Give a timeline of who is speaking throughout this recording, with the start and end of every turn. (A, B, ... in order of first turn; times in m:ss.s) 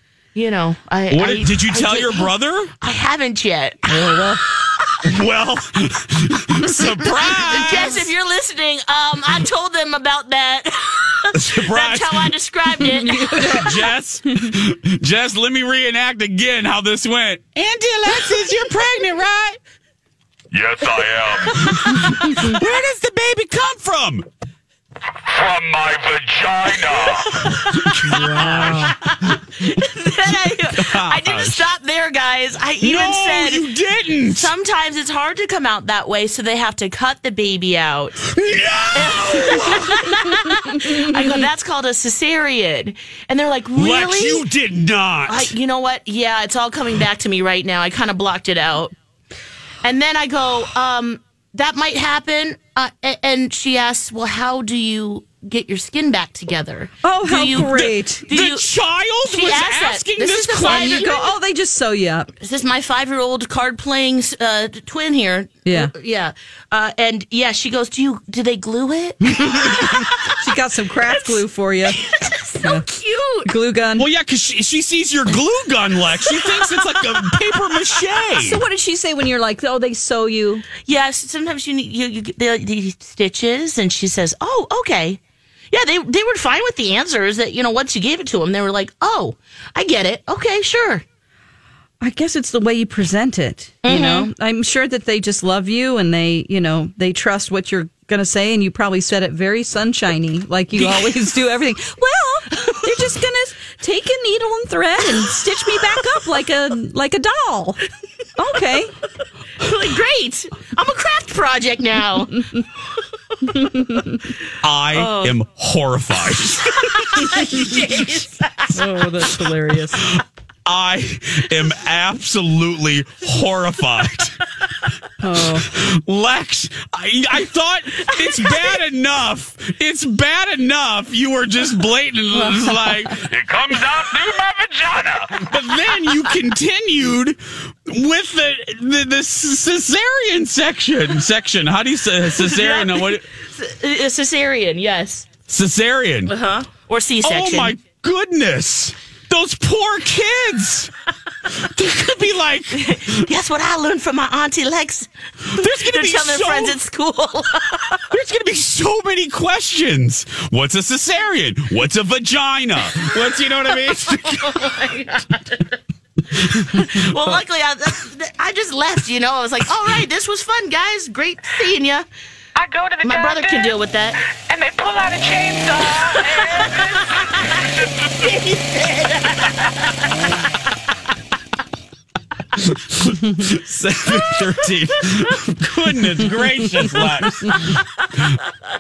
0:00.3-0:05.0 A
0:01.1-0:02.7 B
0:03.9-0:04.4 C
0:05.0-0:08.1 B
0:07.1-0:13.7 A
0:11.4-0:12.3 B
0:12.8-0:13.8 C
0:13.5-0:19.6 B
0:20.5-0:21.9 D
0:21.6-0:24.3 B
0:25.2-0:27.4 D
0:27.4-0:33.7 A
0:27.8-0:29.4 B
0:28.2-0:28.9 C
0:30.7-0:31.6 B
0:32.8-0:34.5 B
0:34.2-0:38.2 A
0:38.2-0:40.2 B
0:38.9-0:44.5 A
0:43.7-0:45.5 B
0:45.3-0:48.9 A
0:49.8-0:58.7 A
0:57.0-0:58.2 C
0:57.5-1:01.1 B
0:59.2-1:01.3 A
1:00.6-1:02.3 C
1:02.4-1:10.3 A
1:05.6-1:05.9 C
1:09.3-1:12.0 C
1:11.0-1:13.5 A
1:13.4-1:14.1 C
1:14.0-1:18.6 B
1:16.2-1:17.8 A
1:18.4-1:20.6 C
1:20.8-1:25.2 A
1:25.7-1:31.0 A
1:32.0-1:47.8 C
1:33.8-1:34.3 A
1:40.7-1:41.2 A
1:48.4-1:48.9 C
1:49.6-1:52.7 A
1:53.8-1:54.2 C
1:54.6-1:57.3 B
1:54.9-1:55.4 A
1:56.7-1:58.8 A
1:58.7-2:00.1 C
2:00.2-2:04.4 B
2:05.2-2:05.7 C
2:05.5-2:13.3 B
2:08.0-2:08.8 A
2:12.3-2:13.1 C
2:13.3-2:15.5 D
2:15.4-2:23.2 B
2:22.2-2:25.3 A
2:25.5-2:26.3 B
2:26.2-2:27.8 A
2:27.2-2:30.9 B
2:31.5-2:33.2 B
2:32.7-2:38.0 A
2:35.4-2:36.8 B
2:38.1-2:44.7 B
2:42.9-2:45.8 A
2:46.4-2:52.1 A
2:46.7-2:47.4 B
2:52.6-2:53.7 E
2:53.0-2:54.2 A
2:54.4-2:57.0 E
2:56.0-2:59.7 A
3:02.6-3:08.4 B
3:07.5-3:07.8 A